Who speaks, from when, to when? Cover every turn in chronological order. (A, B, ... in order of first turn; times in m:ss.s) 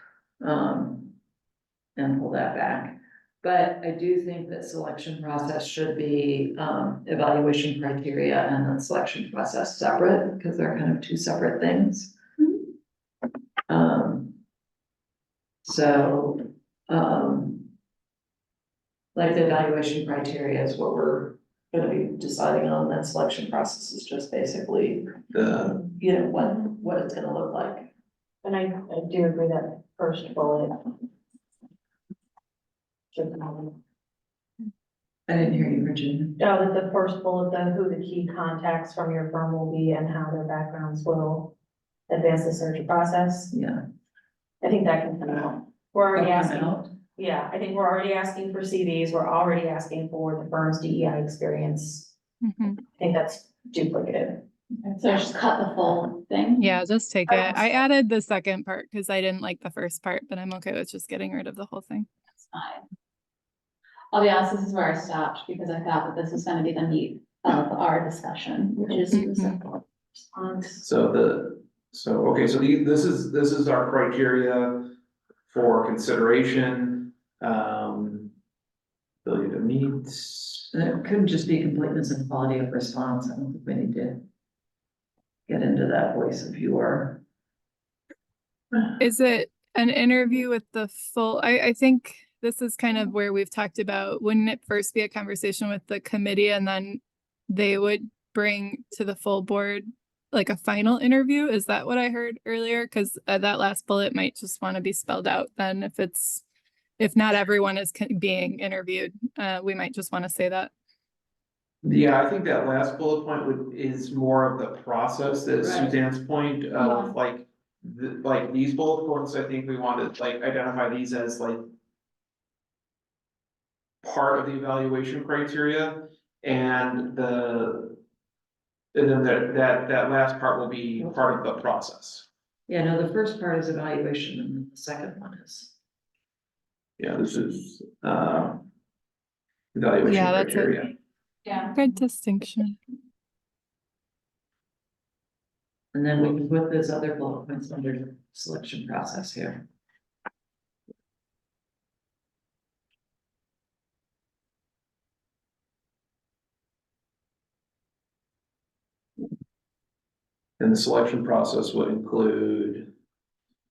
0:00.4-0:01.1 A
0:02.0-0:12.2 A
0:13.7-0:14.4 A
0:15.6-0:17.7 A
0:19.2-0:25.2 A
0:25.3-0:25.8 B
0:25.9-0:27.9 A
0:28.4-0:31.1 C
0:33.1-0:33.8 C
0:35.3-0:36.4 A
0:36.4-0:41.5 C
0:42.1-0:43.5 C
0:43.5-0:43.8 A
0:44.6-0:52.1 C
0:46.1-0:46.9 A
0:52.4-0:52.8 D
0:52.9-0:54.5 C
0:54.8-0:56.7 E
0:56.6-1:02.1 D
1:02.5-1:02.8 E
1:04.1-1:09.8 E
1:09.1-1:09.6 D
1:10.3-1:10.8 C
1:10.8-1:14.9 B
1:15.5-1:18.3 B
1:19.2-1:20.7 B
1:20.7-1:24.2 A
1:25.5-1:27.2 A
1:29.0-1:46.4 D
1:47.0-1:50.7 D
1:51.8-2:01.6 B
1:55.6-1:55.9 A
1:56.8-1:57.1 E
2:04.0-2:08.0 B
2:08.9-2:12.3 B
2:12.7-2:15.8 A
2:17.0-2:18.7 B
2:19.7-2:20.9 B
2:20.0-2:20.9 D
2:21.7-2:22.8 D
2:25.9-2:29.7 A
2:40.6-2:42.9 B